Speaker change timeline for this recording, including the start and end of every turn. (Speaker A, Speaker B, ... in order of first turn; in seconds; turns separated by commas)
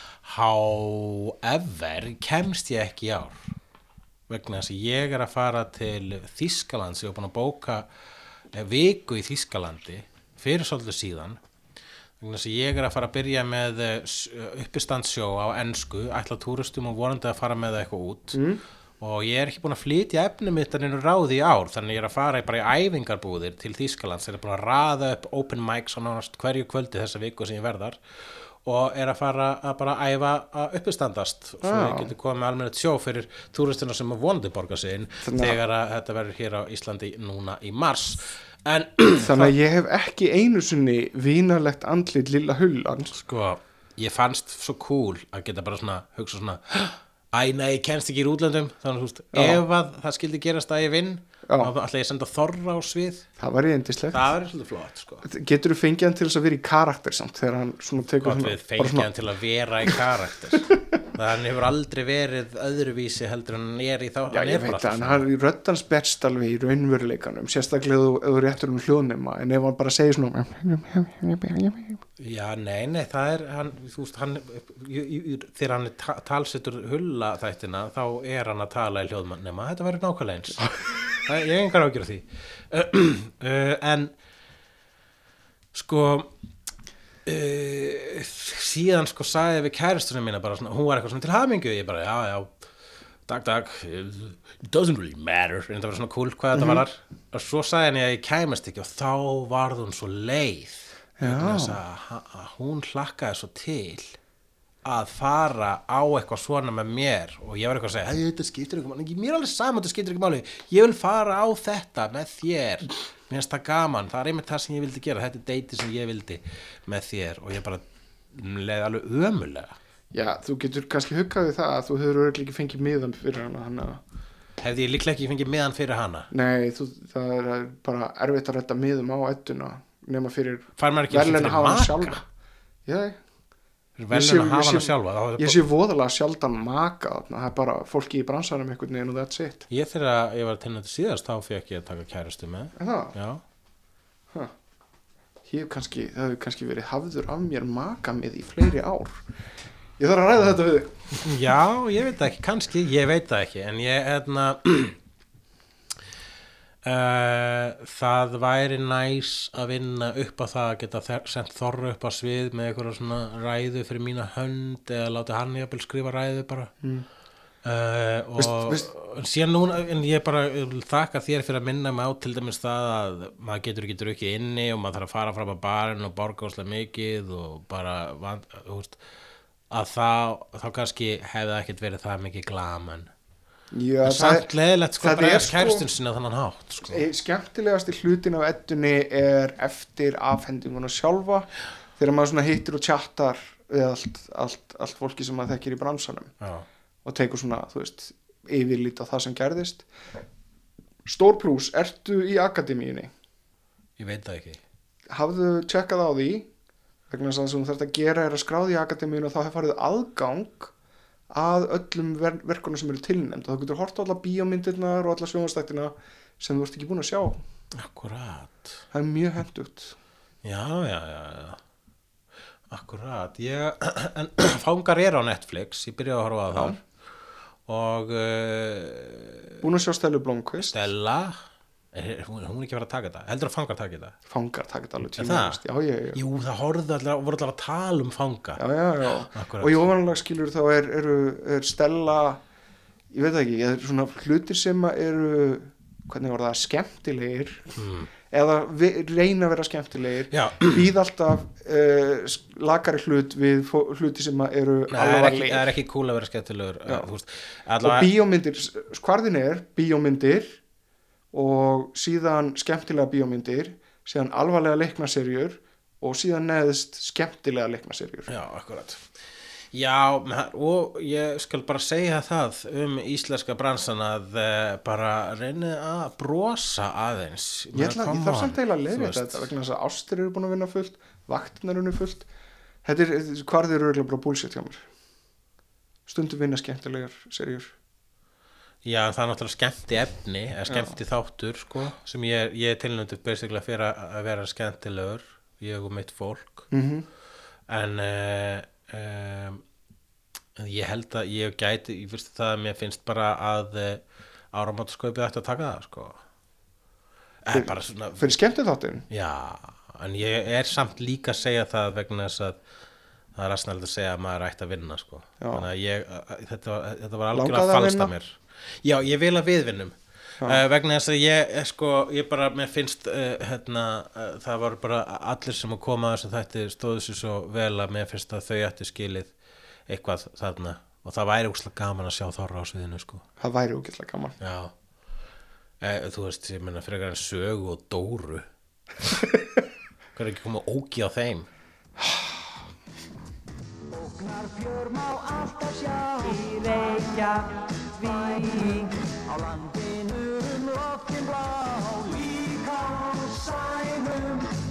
Speaker A: 0.2-3.4, Speaker A: 4.3-7.9, Speaker A: 8.5-11.4, Speaker A: 12.2-18.4, Speaker B: 18.3-18.6, Speaker A: 19.0-28.0, Speaker A: 28.6-39.5, Speaker B: 31.6-32.1, Speaker B: 35.2-35.6, Speaker B: 39.2-43.2, Speaker A: 43.1-53.3, Speaker B: 49.3-49.6, Speaker B: 53.4-54.3, Speaker A: 54.1-55.2, Speaker B: 55.2-59.1, Speaker A: 58.2-65.2, Speaker B: 64.3-72.0, Speaker A: 72.2-84.1, Speaker A: 85.7-86.3, Speaker A: 87.2-92.5, Speaker A: 93.3-104.2, Speaker B: 96.6-96.8, Speaker B: 101.2-101.8, Speaker A: 104.8-119.8, Speaker B: 120.1-124.0, Speaker A: 124.6-126.3, Speaker B: 126.3-132.2, Speaker A: 130.8-132.2, Speaker B: 132.9-133.2, Speaker A: 134.0-135.6, Speaker B: 134.1-139.7, Speaker A: 139.7-143.4, Speaker B: 142.8-143.2, Speaker B: 145.5-149.2, Speaker B: 150.0-150.9, Speaker A: 151.1-155.0, Speaker A: 156.8-166.7, Speaker A: 167.6-179.0, Speaker B: 168.4-168.9, Speaker A: 179.7-183.1, Speaker B: 183.7-185.9, Speaker A: 184.0-187.1, Speaker B: 186.9-196.3, Speaker A: 196.4-196.7, Speaker B: 197.1-199.9, Speaker B: 201.1-203.1, Speaker A: 204.0-204.6, Speaker B: 205.1-206.5, Speaker B: 207.1-210.7, Speaker B: 211.3-217.4, Speaker A: 217.7-218.8, Speaker B: 218.9-219.9, Speaker A: 220.4-221.6, Speaker A: 222.7-226.8, Speaker A: 227.7-229.6, Speaker B: 229.6-230.8, Speaker A: 230.7-231.4, Speaker A: 231.9-234.2, Speaker B: 234.3-236.2, Speaker A: 235.2-235.6, Speaker A: 236.1-238.6, Speaker B: 238.6-242.4, Speaker A: 239.3-239.9, Speaker B: 243.1-247.7, Speaker A: 247.8-248.1, Speaker B: 248.3-255.7, Speaker A: 250.3-250.9, Speaker A: 254.9-258.1, Speaker B: 257.8-260.6, Speaker B: 261.3-268.3, Speaker A: 268.3-269.1, Speaker A: 269.7-279.5, Speaker B: 277.7-282.3, Speaker B: 282.9-284.8, Speaker B: 286.1-287.7, Speaker A: 288.8-296.7, Speaker B: 296.7-297.1, Speaker A: 297.7-299.6, Speaker A: 300.6-306.2, Speaker A: 307.4-308.3, Speaker B: 307.5-309.1, Speaker A: 309.1-312.6, Speaker A: 313.4-329.3, Speaker B: 315.4-315.7, Speaker B: 317.3-318.1, Speaker A: 329.9-333.2, Speaker B: 333.4-334.4, Speaker A: 334.4-334.7, Speaker A: 335.8-338.5, Speaker A: 340.2-341.5, Speaker C: 343.9-354.6